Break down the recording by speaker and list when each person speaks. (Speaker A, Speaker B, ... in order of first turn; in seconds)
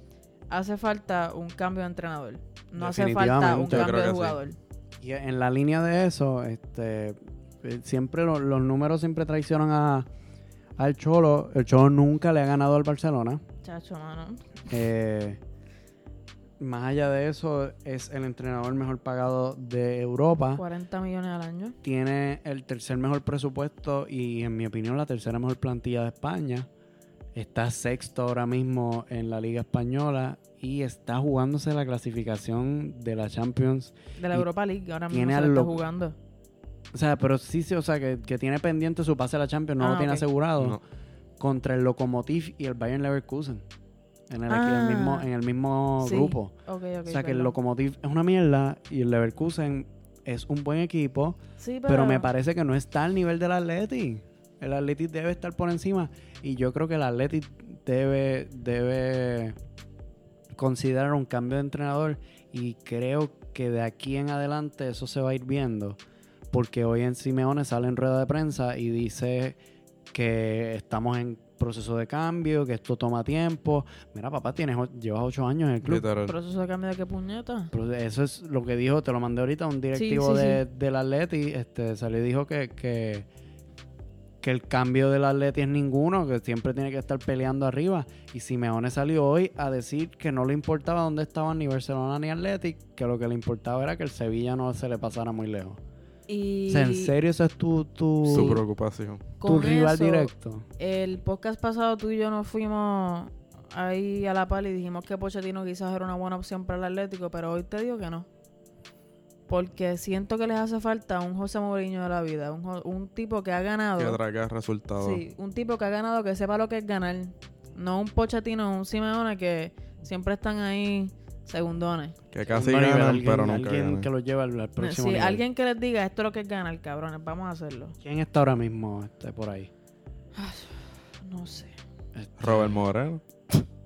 Speaker A: 0.5-4.6, 13.6-14.6, 20.6-21.8, 34.2-36.1, 39.8-40.2, 44.5-45.2, 46.0-47.5, 51.6-52.3, 76.2-77.7, 79.9-80.6, 96.3-97.1, 98.3-98.6, 99.4-108.3, 109.5-114.2, 115.0-122.2, 124.8-127.9, 130.3-131.7
Speaker B: 2.8-4.0, 5.0-10.1, 10.8-13.4, 14.7-15.4, 16.6-20.6, 21.8-26.7, 27.3-34.5, 35.1-35.8, 36.9-40.8, 41.4-43.6, 44.3-46.5, 47.1-59.5, 60.5-66.0, 66.5-69.6, 70.1-76.0, 77.7-83.3, 84.4-95.8, 96.7-98.6, 99.4-100.7, 122.5-125.4, 128.0-129.7, 132.1-132.8
Speaker C: 3.6-4.4, 75.8-76.3, 98.2-99.3, 114.0-115.2, 122.3-124.1, 132.4-133.6